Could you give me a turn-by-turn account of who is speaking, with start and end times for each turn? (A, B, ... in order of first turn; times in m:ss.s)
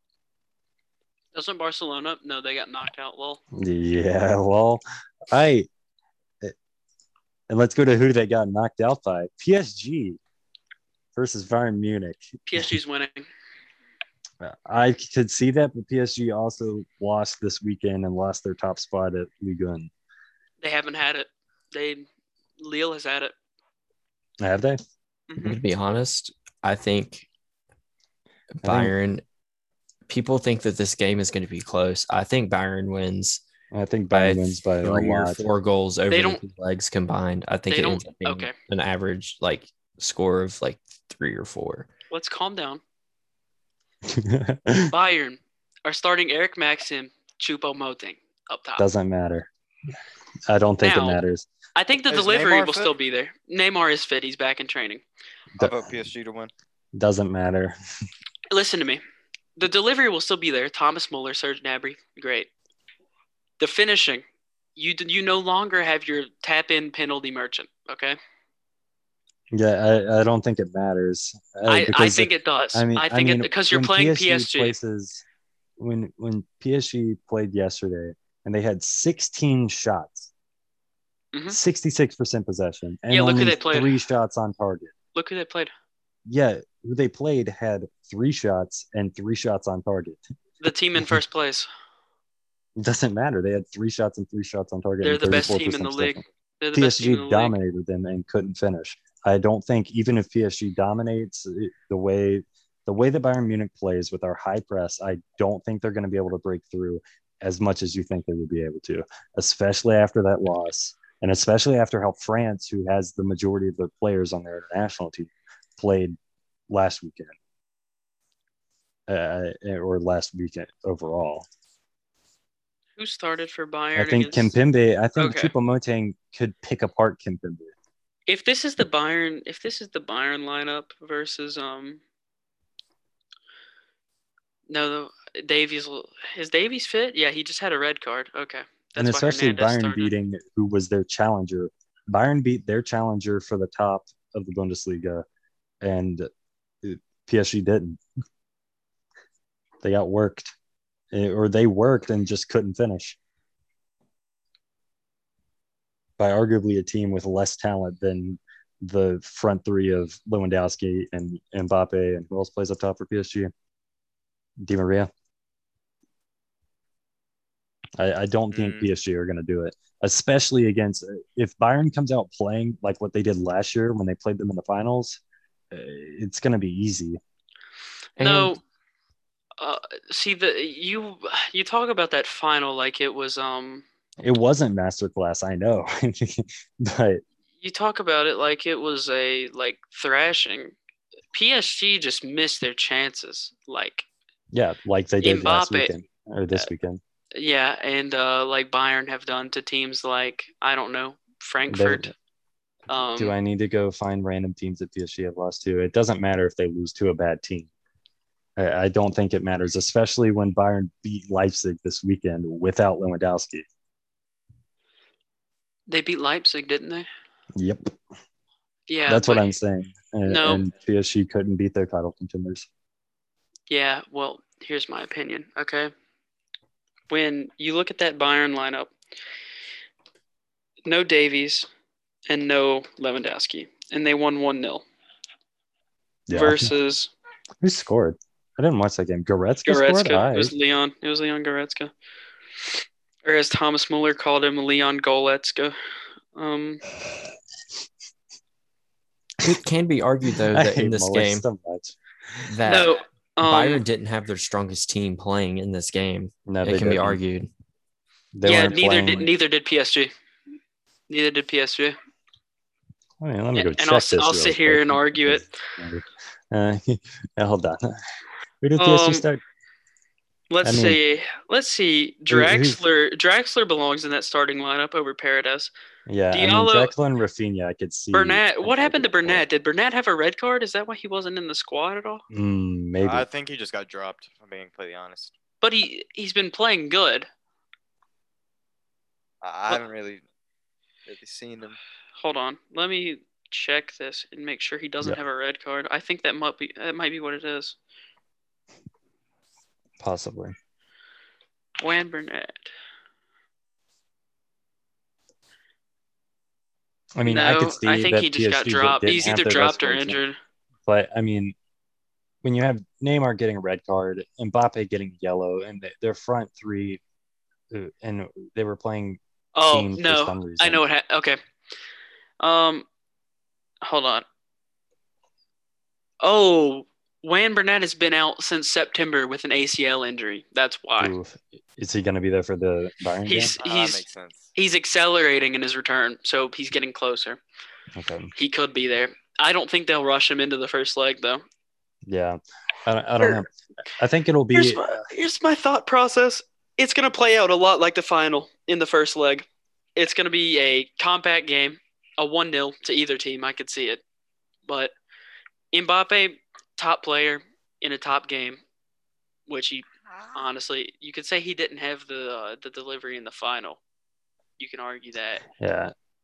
0:01.3-0:03.4 A
0:03.6-0:05.7 B
0:07.5-0:10.2 B
0:11.2-0:12.7 B
0:12.5-0:13.3 A
0:14.4-0:19.9 B
0:20.6-0:22.1 A
0:22.6-0:23.3 A
0:24.4-0:24.8 B
0:25.3-0:25.6 A
0:25.4-0:27.3 C
0:28.6-0:29.2 C
0:28.6-0:28.9 B
0:30.1-0:33.4 C
0:33.7-0:35.4 B
0:34.1-0:41.9 C
0:36.1-0:36.4 A
0:37.7-0:38.5 A
0:42.1-0:42.8 A
0:44.0-0:44.9 B
0:44.9-0:48.9 A
0:48.8-0:49.5 B
0:50.5-0:51.5 B
0:50.8-0:51.2 A
0:51.8-0:55.0 A
0:52.1-0:52.9 D
0:55.6-0:55.9 B
0:55.6-0:56.5 D
0:57.0-0:57.7 B
0:58.5-0:59.0 A
0:59.6-1:02.5 A
1:03.6-1:04.2 A
1:04.8-1:08.2 A
1:09.5-1:15.2 B
1:11.7-1:14.8 A
1:15.8-1:20.3 B
1:21.5-1:24.9 B
1:23.1-1:24.0 A
1:25.2-1:25.7 A
1:26.3-1:30.2 B
1:30.6-1:31.7 A
1:32.8-1:36.2 B
1:35.0-1:37.6 A
1:36.7-1:56.2 B
1:56.7-1:57.3 B
1:59.1-2:01.5 B
2:03.0-2:04.5 A
2:04.0-2:07.7 B
2:05.2-2:05.5 A
2:08.3-2:12.0 A
2:14.7-2:20.1 A
2:19.0-2:25.2 B
2:25.8-2:26.3 B
2:26.8-2:28.0 B
2:29.8-2:30.5 B
2:31.1-2:33.2 B
2:36.2-2:43.5 B
2:44.6-2:45.1 B
2:48.0-2:55.2 B
2:48.5-2:48.9 D
2:55.7-2:57.2 B
2:58.2-2:58.6 C
2:58.2-2:58.6 A
2:59.6-3:03.8 A
3:04.2-3:07.2 B
3:07.6-3:10.7 A
3:11.3-3:14.1 A
3:14.5-3:17.0 B
3:15.2-3:15.9 A
3:17.4-3:22.1 A
3:21.7-3:22.1 B
3:22.9-3:23.3 A
3:23.2-3:27.7 B
3:28.6-3:33.6 B
3:35.9-3:37.1 A
3:37.6-3:37.9 B
3:38.9-3:39.5 A
3:39.1-3:42.7 B
3:40.2-3:40.7 A
3:43.7-3:45.9 A
3:47.1-3:48.9 A
3:50.8-3:51.7 A
3:52.3-3:54.8 A
3:56.3-3:56.7 B
3:56.3-3:57.1 A
3:57.6-4:00.5 B
3:59.7-4:01.9 A
4:03.2-4:05.8 A
4:06.4-4:06.8 A
4:09.4-4:11.4 C
4:10.5-4:12.5 B
4:12.5-4:17.5 C
4:12.7-4:13.8 A
4:16.5-4:17.2 B
4:18.3-4:19.3 B
4:18.4-4:20.1 A
4:21.1-4:22.0 A
4:23.2-4:28.0 B
4:23.6-4:25.5 A
4:28.6-4:29.4 B
4:28.8-4:29.2 A
4:30.5-4:35.7 A
4:30.6-4:31.0 B
4:32.3-4:32.8 B
4:36.1-4:39.4 B
4:36.3-4:36.9 A
4:38.1-4:42.2 A
4:42.3-4:43.3 B
4:43.0-4:45.3 D
4:45.6-4:47.3 A
4:49.4-4:50.2 D
4:51.1-4:51.8 D
4:52.2-4:57.8 A
5:00.0-5:00.6 B
5:01.8-5:02.7 A
5:07.2-5:10.2 B
5:07.3-5:10.4 A
5:10.9-5:11.6 B
5:12.4-5:17.0 B
5:17.7-5:20.8 B
5:19.6-5:21.4 A
5:22.4-5:22.9 A
5:23.8-5:24.2 A
5:26.2-5:31.2 A
5:31.0-5:33.6 B
5:33.3-5:37.4 A
5:33.6-5:34.5 D
5:38.0-5:38.3 B
5:38.4-5:41.4 A
5:42.1-5:45.0 B
5:44.5-5:54.0 A
5:54.7-5:54.9 A
5:55.7-5:58.6 A
5:59.5-6:03.8 A
6:04.6-6:05.4 A
6:05.6-6:05.9 B